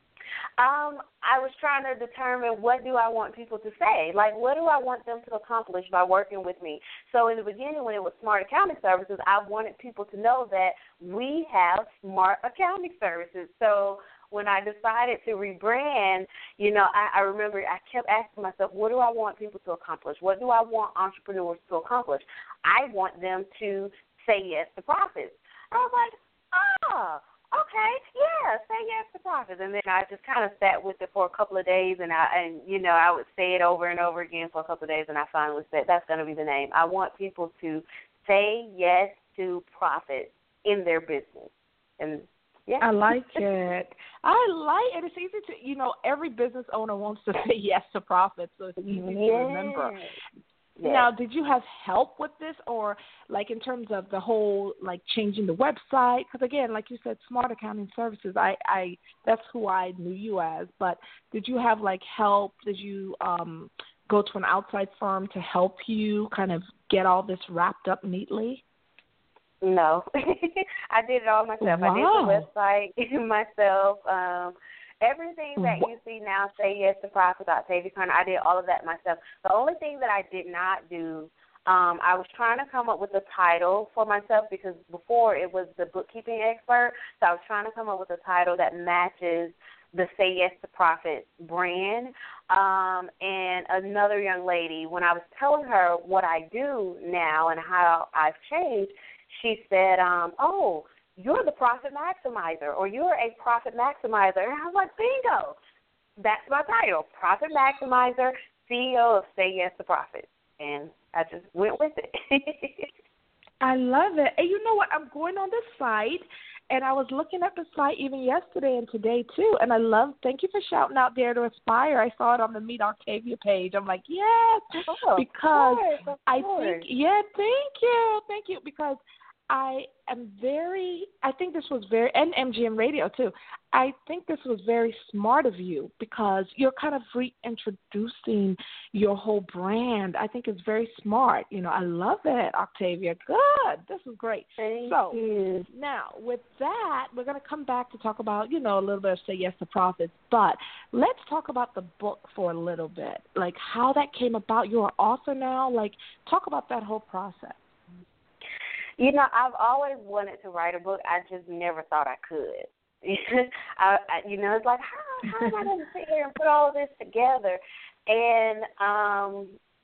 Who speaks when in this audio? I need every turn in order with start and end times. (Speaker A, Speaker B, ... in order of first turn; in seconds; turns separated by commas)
Speaker A: 0.6-43.4, Speaker B: 42.8-50.0, Speaker A: 48.9-50.2, Speaker A: 50.8-51.1, Speaker B: 50.8-68.6, Speaker A: 69.6-105.6, Speaker B: 71.6-72.5, Speaker B: 75.6-75.9, Speaker A: 106.2-112.9, Speaker B: 113.6-157.7, Speaker A: 124.8-126.8, Speaker A: 144.6-145.7, Speaker A: 159.0-169.5